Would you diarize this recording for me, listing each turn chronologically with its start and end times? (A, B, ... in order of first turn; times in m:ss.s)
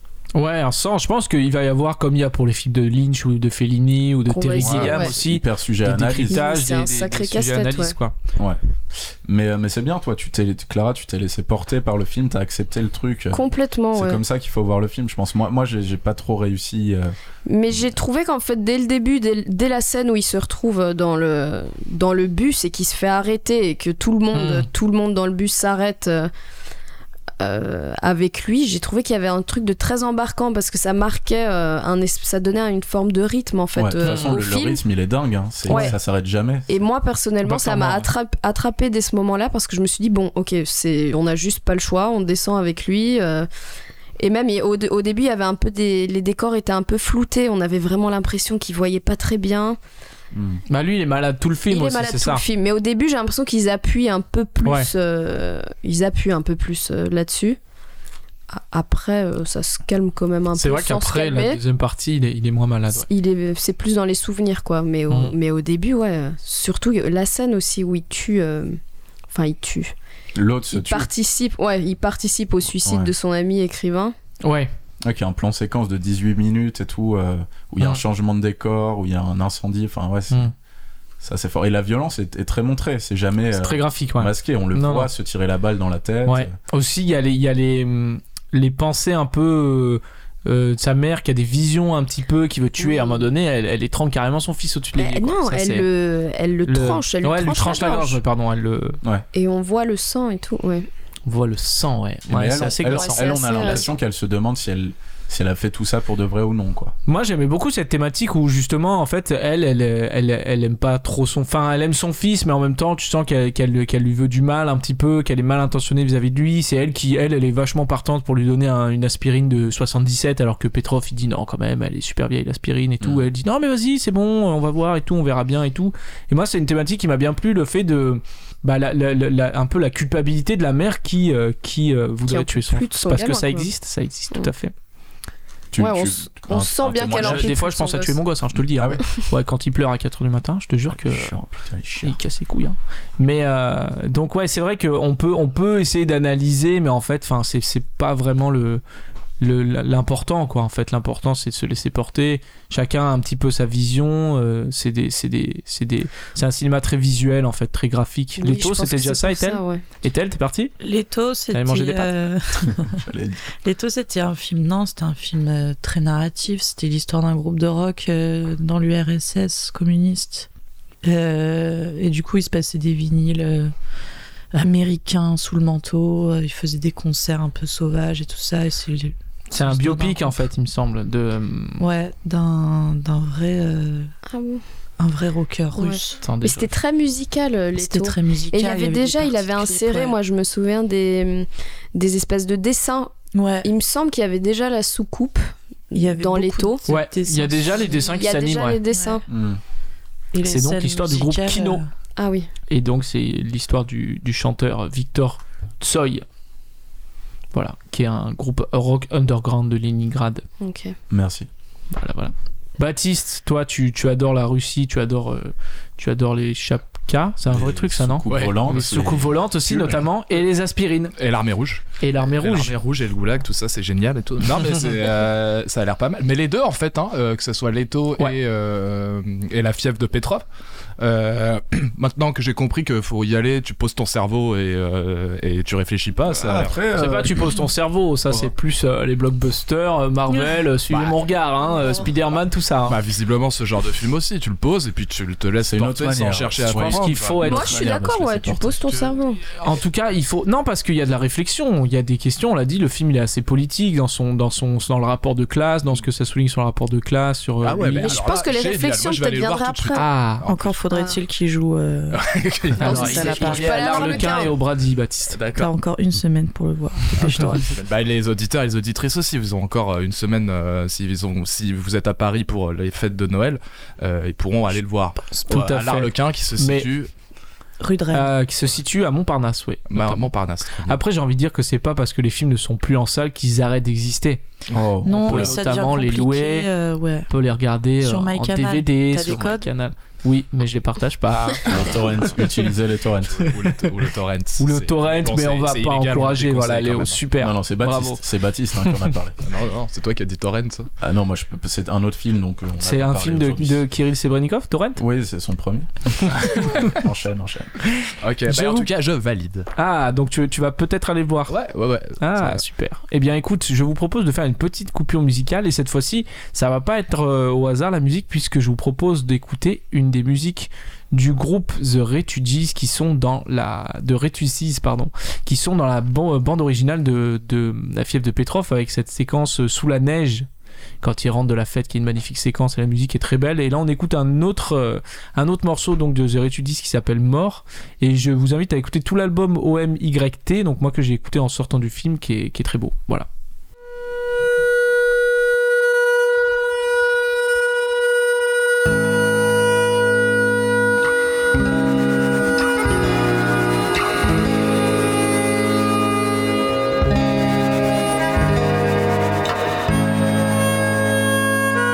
0:00.3-0:08.1 A
0:04.3-0:05.1 B
0:04.6-0:06.4 C
0:06.3-0:07.9 B
0:09.2-0:17.1 C
0:13.3-0:14.2 B
0:17.4-0:26.3 B
0:24.3-0:24.7 A
0:27.4-0:34.8 B
0:33.8-0:36.8 C
0:34.0-0:34.4 A
0:35.7-0:35.9 A
0:35.7-0:35.9 B
0:36.7-0:43.5 B
0:37.4-0:38.1 A
0:44.2-0:49.8 B
0:50.3-0:50.6 C
0:50.7-0:52.4 A
0:51.7-0:57.6 B
0:54.6-0:54.9 A
0:58.5-1:01.6 B
1:00.6-1:03.0 A
1:02.9-1:08.8 B
1:09.3-1:09.9 B
1:10.3-1:11.1 C
1:10.7-1:14.1 B
1:12.8-1:13.1 C
1:14.4-1:14.7 A
1:15.0-1:20.5 C
1:21.2-1:26.5 C
1:23.5-1:25.1 A
1:26.2-1:35.9 A
1:32.8-1:33.2 B
1:34.9-1:38.2 B
1:36.6-1:39.0 A
1:39.3-1:40.9 B
1:41.3-1:43.8 A
1:42.3-1:46.9 C
1:42.8-1:43.9 B
1:47.0-2:14.7 A
2:03.0-2:03.3 C
2:12.2-2:13.7 B
2:15.7-2:17.5 C
2:15.8-2:18.2 B
2:17.1-2:21.3 A
2:18.5-2:19.0 C
2:20.9-2:22.2 C
2:22.0-2:28.8 A
2:29.4-2:40.7 A
2:38.4-2:39.8 B
2:40.8-2:43.1 D
2:41.5-2:42.1 A
2:42.9-2:43.4 C
2:43.6-2:50.5 D
2:51.0-2:53.7 D
2:54.5-3:00.4 D
2:59.5-3:01.8 A
3:01.8-3:04.1 D
3:04.3-3:04.6 B
3:05.0-3:06.2 D
3:05.8-3:16.8 B
3:06.2-3:06.7 A
3:07.7-3:10.2 D
3:13.3-3:13.7 D
3:15.9-3:18.2 D
3:16.9-3:18.8 A
3:18.2-3:19.2 B
3:18.9-3:19.2 D
3:19.3-3:19.6 C
3:20.3-3:21.9 D
3:20.4-3:21.8 A
3:22.2-3:22.5 B
3:22.7-3:26.2 A
3:27.5-3:30.4 A
3:30.6-3:30.9 B
3:31.1-3:31.5 C
3:31.9-3:41.1 A
3:37.5-3:39.9 C
3:38.3-3:39.0 E
3:39.7-3:40.0 E
3:41.1-3:50.4 E
3:42.0-3:42.7 A
3:51.0-3:56.8 E
3:56.4-3:57.3 C
3:56.9-4:03.0 A
4:00.9-4:01.2 E
4:02.9-4:07.6 E
4:05.6-4:08.9 C
4:06.8-4:07.8 A
4:07.4-4:09.4 B
4:09.6-4:18.2 A
4:17.6-4:20.8 E
4:18.0-4:20.1 B
4:19.9-4:20.4 A
4:20.4-4:24.3 D
4:20.9-4:21.2 B
4:22.1-4:23.7 E
4:22.8-4:25.4 A
4:22.8-4:24.5 B
4:25.3-4:25.7 E
4:25.5-4:27.8 D
4:27.1-4:37.1 E
4:35.4-4:36.9 A
4:37.8-4:38.3 D
4:38.1-4:40.3 A
4:39.9-4:41.0 E
4:40.8-4:44.4 A
4:44.7-4:45.4 E
4:44.7-4:45.5 C
4:45.0-4:47.3 D
4:45.2-4:46.7 A
4:47.3-4:52.4 A
4:48.0-4:49.7 D
4:51.7-4:53.6 C
4:53.2-4:57.2 E
4:54.6-4:58.2 A
4:57.4-4:59.4 C
4:59.4-5:00.9 E
5:01.0-5:03.8 C
5:02.8-5:05.0 A
5:05.0-5:07.8 C
5:06.3-5:07.0 A
5:08.2-5:09.7 E
5:08.5-5:08.9 A
5:09.7-5:11.6 A
5:11.5-5:12.6 E
5:12.2-5:30.5 A
5:31.0-5:43.3 A